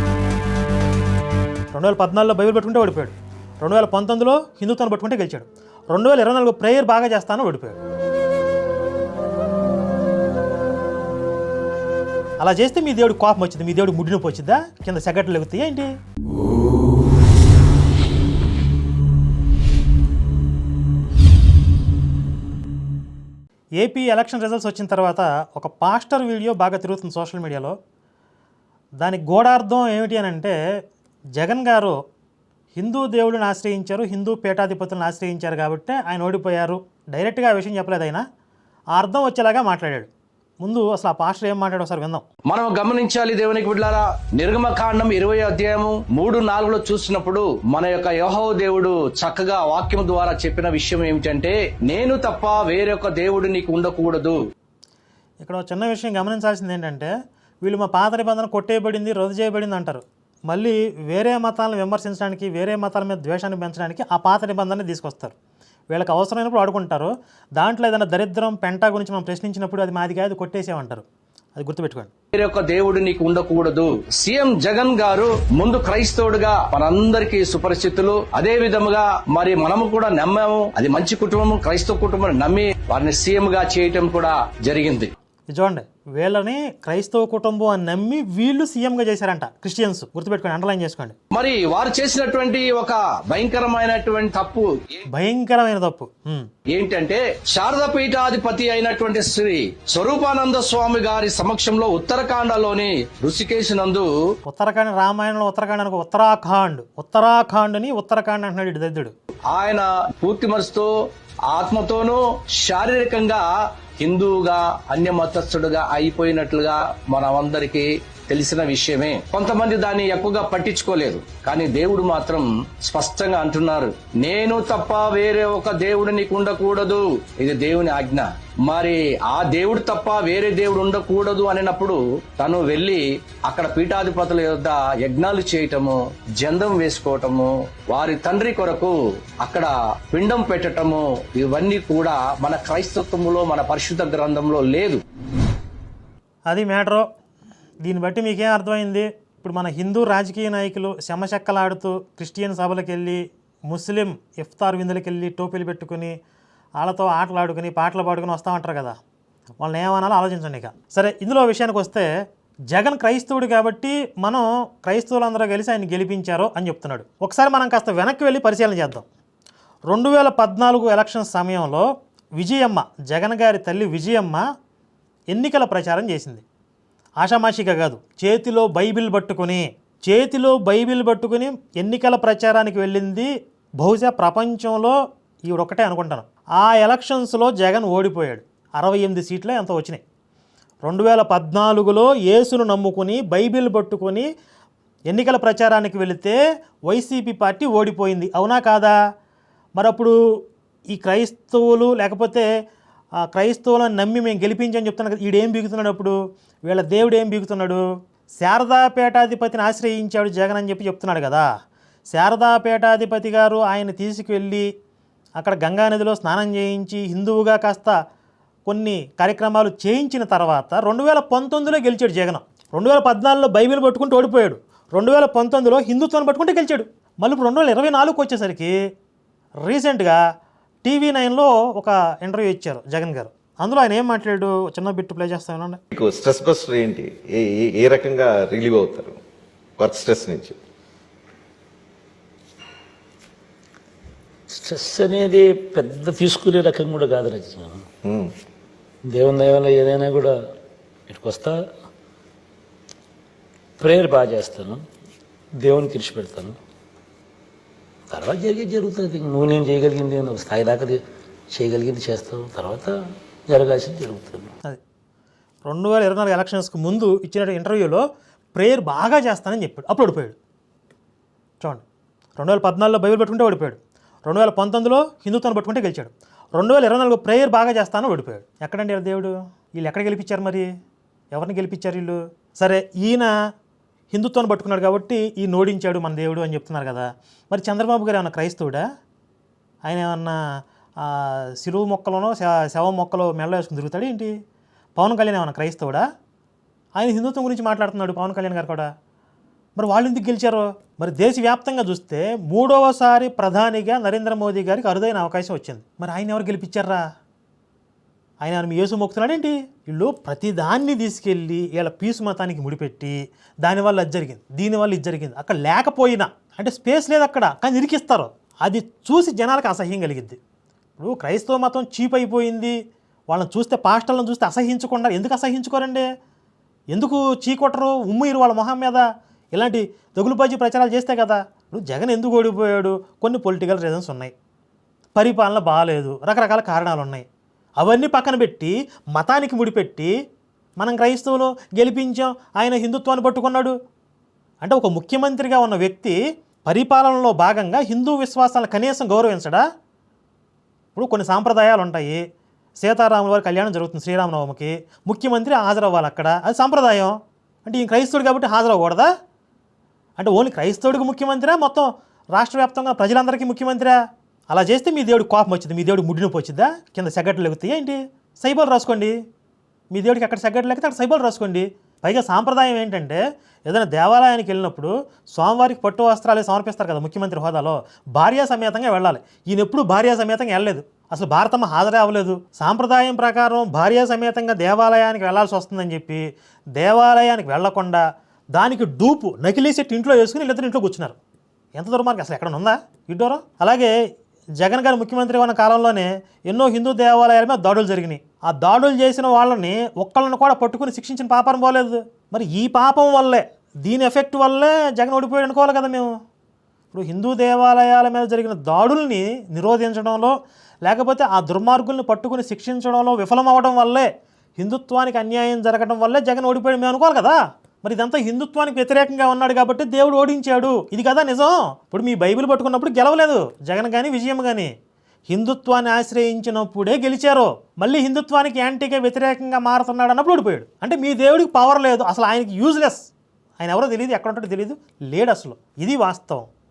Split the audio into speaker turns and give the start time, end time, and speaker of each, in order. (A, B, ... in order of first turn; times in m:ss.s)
0:01.7-0:07.8 A
0:12.4-0:15.9 A
0:23.8-0:27.8 A
0:29.0-0:30.6 A
0:31.4-0:32.0 A
0:32.8-0:38.2 A
0:38.9-0:40.1 A
0:40.6-0:42.2 A
0:42.5-0:54.4 B
0:55.4-0:57.1 A
0:57.6-1:05.4 A
1:05.9-1:11.0 A
1:11.6-1:12.1 A
1:12.3-1:25.1 B
1:25.5-1:31.2 A
1:31.3-1:34.7 B
1:35.1-1:36.5 A
1:36.7-1:44.1 B
1:44.5-1:49.1 A
1:49.5-1:50.9 B
1:51.5-2:25.0 B
2:26.5-2:27.0 A
2:27.8-2:36.1 A
2:36.8-2:39.0 A
2:39.6-2:42.1 A
2:42.7-2:49.1 A
2:49.9-2:51.9 A
2:52.4-2:54.4 A
2:55.3-2:56.4 A
2:57.2-3:03.3 A
3:03.8-3:10.0 A
3:10.8-3:14.3 A
3:15.1-3:19.0 A
3:19.8-3:20.1 A
3:20.9-3:22.4 A
3:23.3-3:26.1 A
3:26.7-3:27.8 A
3:28.4-3:31.5 A
3:32.1-3:34.7 A
3:35.4-3:38.0 A
3:38.7-3:48.7 A
3:49.6-3:50.2 A
3:50.8-3:55.8 A
3:55.9-3:59.2 C
3:59.8-4:00.6 C
4:04.5-4:07.9 D
4:08.0-4:08.3 C
4:09.1-4:10.4 D
4:11.1-4:11.7 D
4:13.8-4:14.8 D
4:15.6-4:16.6 D
4:18.1-4:24.5 D
4:25.7-4:28.0 A
4:28.6-4:30.4 A
4:32.4-4:40.7 A
4:41.3-4:43.3 A
4:44.1-4:48.8 A
4:49.8-4:50.4 A
4:51.0-4:54.3 A
4:55.0-4:56.0 A
4:57.0-4:58.9 A
4:59.8-5:07.0 A
5:08.4-5:20.4 A
5:21.0-5:22.8 A
5:23.3-5:26.0 A
5:26.9-5:34.3 A
5:35.2-5:37.2 A
5:37.8-5:40.1 A
5:40.8-5:43.7 A
5:44.6-5:49.6 A
5:51.0-5:52.2 A
5:52.8-5:59.1 A
6:00.2-6:04.0 A
6:04.5-6:09.1 A
6:09.9-6:26.2 A
6:26.8-6:28.0 A
6:28.6-6:31.2 A
6:31.8-6:33.9 A
6:34.6-6:46.1 A
6:46.9-7:04.7 A
7:05.3-7:13.1 A
7:13.6-7:16.5 A